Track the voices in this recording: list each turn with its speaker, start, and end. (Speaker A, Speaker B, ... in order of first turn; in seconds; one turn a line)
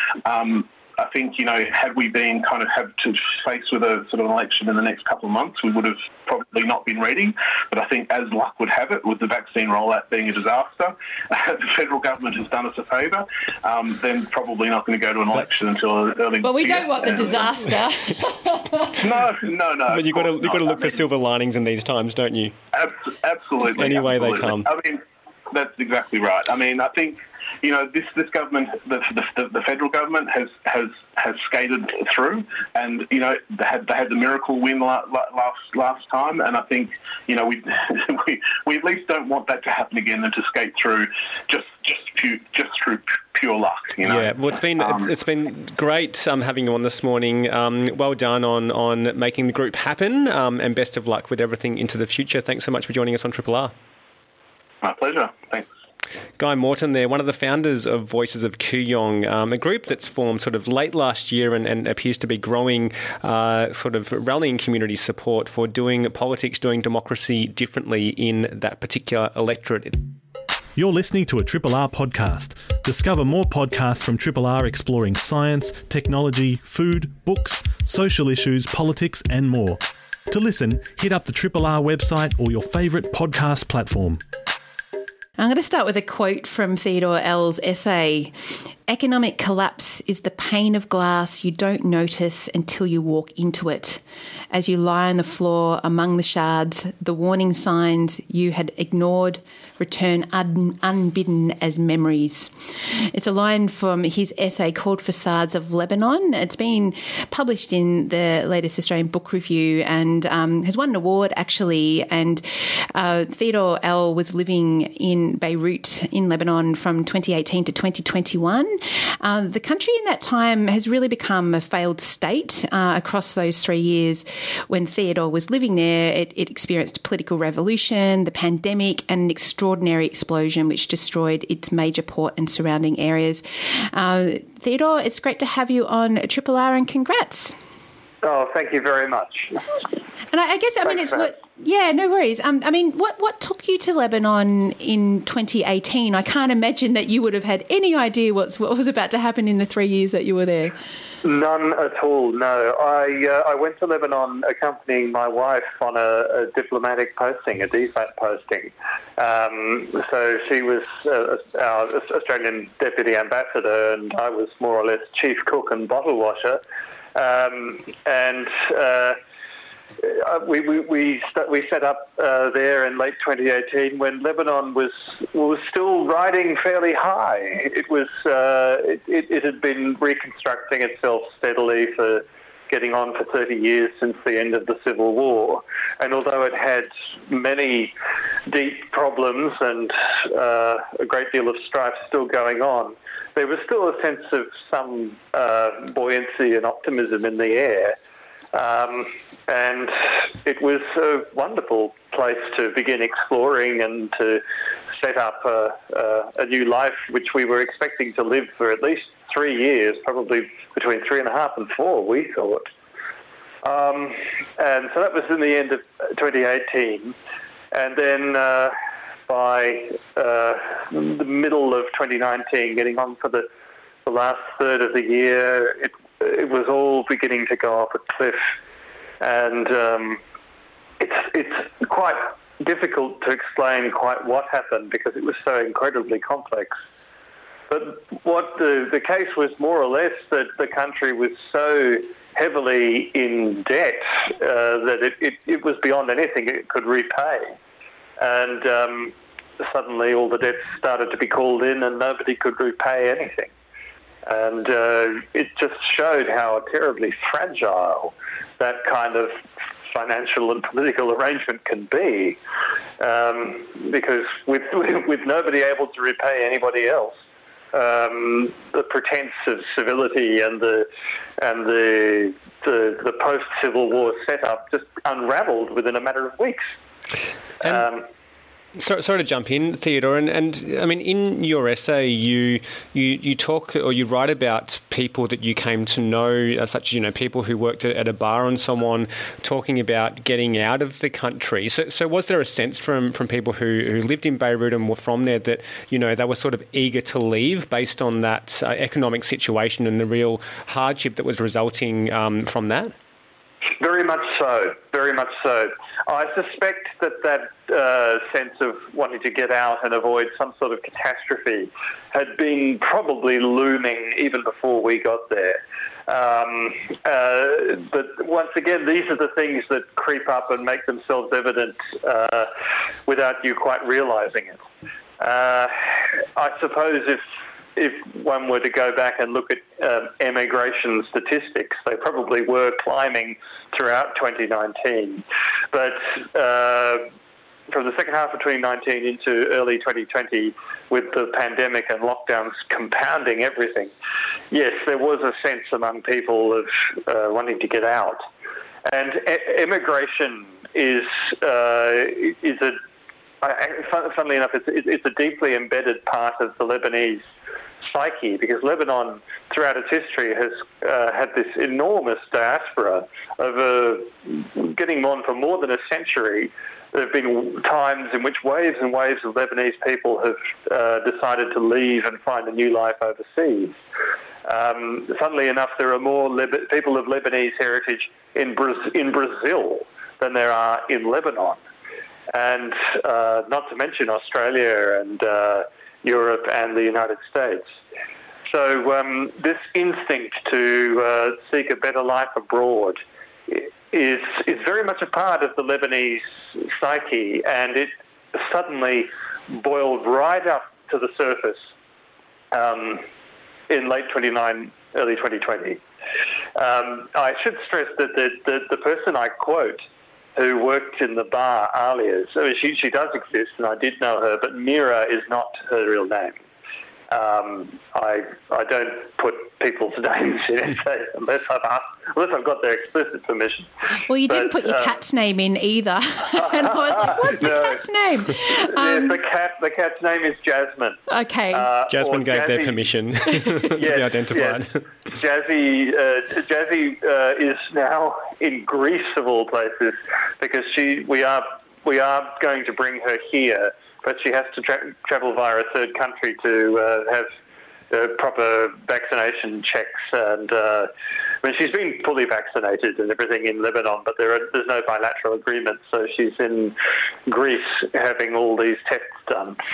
Speaker A: 0.2-17.5
Speaker B: 16.4-18.9
Speaker A: 18.9-21.1
Speaker C: 19.9-22.6
Speaker A: 22.7-45.1
Speaker C: 23.8-24.7
Speaker C: 44.1-53.7
Speaker A: 54.8-55.7
Speaker C: 56.4-70.0
Speaker D: 70.8-84.2
Speaker B: 85.4-88.3
Speaker B: 88.9-137.6
Speaker E: 138.2-139.8
Speaker B: 140.3-150.8
Speaker E: 140.9-141.3
Speaker E: 151.2-166.6
Speaker E: 167.2-169.2
Speaker E: 170.0-187.9
Speaker E: 188.5-198.0
Speaker E: 198.5-204.4
Speaker E: 204.9-212.7
Speaker E: 213.6-217.2
Speaker E: 217.7-218.7
Speaker E: 219.3-223.5
Speaker E: 224.1-228.5
Speaker E: 229.2-230.2
Speaker E: 231.0-236.8
Speaker E: 237.7-247.6
Speaker E: 248.2-253.5
Speaker E: 254.3-262.4
Speaker E: 263.0-267.2
Speaker E: 267.7-270.9
Speaker E: 271.4-276.7
Speaker E: 277.6-278.1
Speaker C: 278.8-302.9
Speaker E: 303.8-322.5
Speaker E: 323.1-324.6
Speaker E: 325.2-327.2
Speaker E: 327.8-337.1
Speaker E: 337.7-343.9
Speaker E: 344.5-348.2
Speaker E: 348.9-352.8
Speaker E: 353.4-357.3
Speaker E: 357.8-373.8
Speaker E: 374.5-381.6
Speaker E: 382.3-387.8
Speaker E: 388.5-401.7
Speaker E: 402.5-403.1
Speaker E: 403.7-405.8
Speaker E: 406.6-409.9
Speaker E: 410.4-416.4
Speaker E: 417.1-423.7
Speaker B: 424.1-429.2
Speaker E: 424.3-425.0
Speaker E: 426.4-431.0
Speaker B: 431.1-431.7
Speaker E: 431.5-447.3
Speaker C: 431.9-434.8
Speaker E: 447.9-450.9
Speaker E: 451.4-456.8
Speaker E: 457.3-459.6